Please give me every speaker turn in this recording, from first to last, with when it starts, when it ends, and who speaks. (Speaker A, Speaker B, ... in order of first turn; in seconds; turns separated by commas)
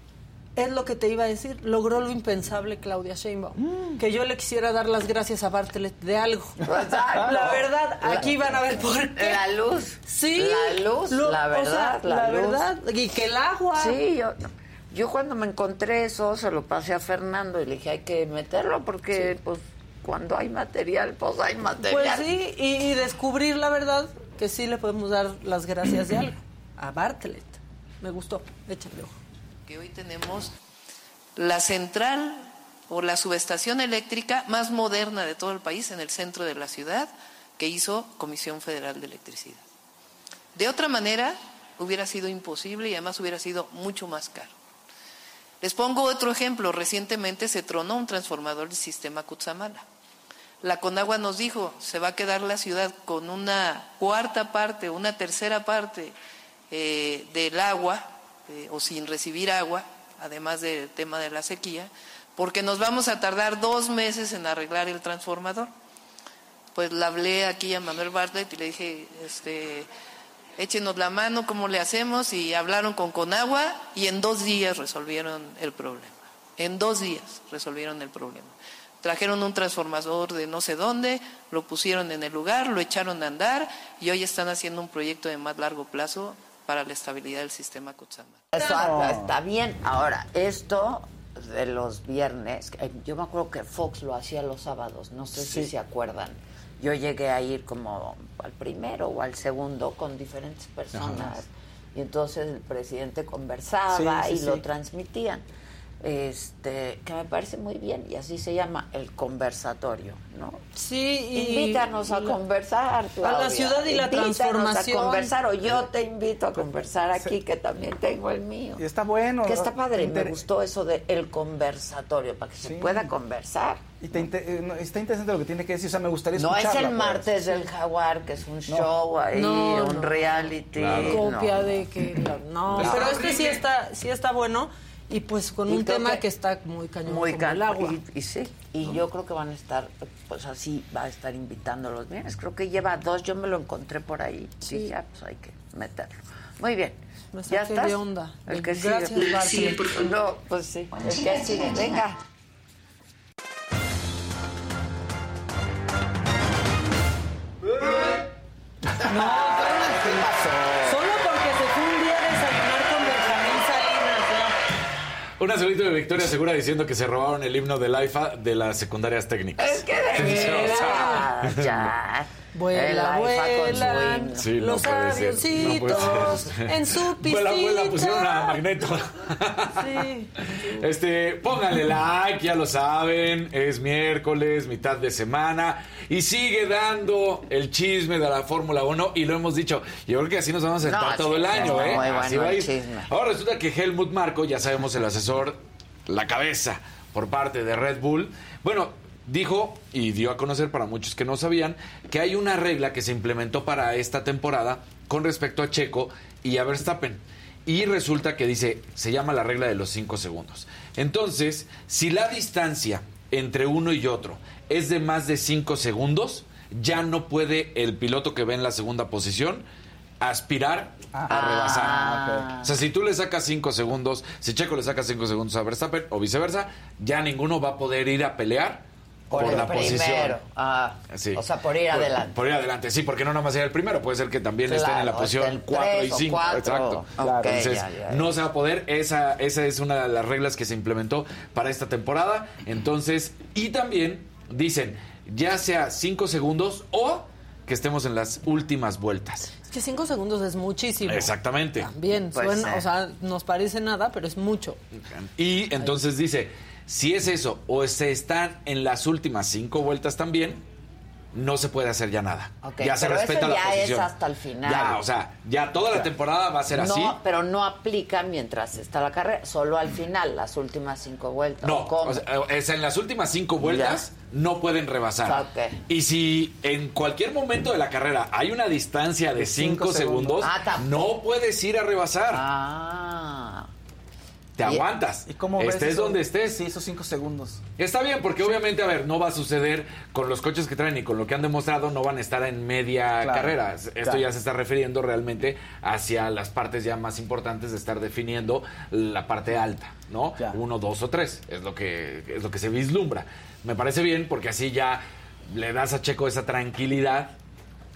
Speaker A: 0.6-9.4, Speaker B: 6.6-12.7, Speaker A: 10.1-14.0, Speaker B: 13.7-22.3, Speaker A: 21.8-29.2, Speaker C: 29.7-30.5, Speaker C: 31.4-39.6, Speaker C: 40.5-44.5, Speaker C: 45.6-49.8, Speaker C: 50.6-56.1, Speaker C: 56.7-65.7, Speaker C: 66.7-69.9, Speaker C: 70.6-88.5, Speaker B: 88.5-105.4, Speaker D: 88.6-89.3, Speaker D: 95.4-95.7, Speaker E: 100.9-101.3, Speaker D: 103.9-104.6, Speaker B: 106.0-110.6, Speaker A: 110.8-112.4, Speaker B: 111.3-118.8, Speaker A: 113.2-115.3, Speaker D: 118.8-120.4, Speaker B: 119.4-123.8, Speaker D: 122.6-123.1, Speaker D: 124.0-127.4, Speaker B: 126.3-131.8, Speaker A: 129.3-130.4, Speaker E: 130.7-131.3, Speaker A: 131.0-138.0, Speaker E: 132.7-133.6, Speaker B: 132.8-133.3, Speaker B: 135.7-136.2, Speaker B: 137.0-152.2, Speaker A: 147.3-149.9, Speaker A: 159.0-164.6, Speaker E: 165.4-171.9, Speaker B: 169.6-174.5, Speaker A: 170.2-171.2, Speaker A: 172.5-178.6, Speaker E: 174.4-179.9, Speaker A: 179.8-180.8, Speaker E: 180.4-219.6, Speaker B: 190.8-193.1, Speaker D: 191.6-191.9, Speaker E: 220.2-222.1, Speaker D: 221.1-222.6, Speaker B: 221.3-222.7, Speaker E: 222.6-230.4, Speaker B: 229.3-232.4, Speaker D: 229.3-230.0, Speaker E: 231.1-249.5, Speaker B: 234.7-238.3, Speaker D: 237.2-237.6, Speaker A: 249.5-254.8, Speaker E: 251.0-251.9, Speaker B: 252.3-252.8, Speaker E: 255.1-260.6, Speaker E: 261.3-264.1, Speaker B: 262.6-265.0, Speaker E: 264.6-267.2, Speaker B: 266.7-272.2, Speaker E: 271.6-282.4, Speaker B: 273.6-274.1, Speaker B: 275.2-275.8, Speaker D: 279.3-280.5, Speaker B: 280.4-281.1, Speaker B: 282.3-283.7, Speaker E: 284.6-286.6, Speaker B: 284.6-284.9, Speaker D: 285.2-287.6, Speaker E: 287.8-307.3, Speaker D: 293.2-294.2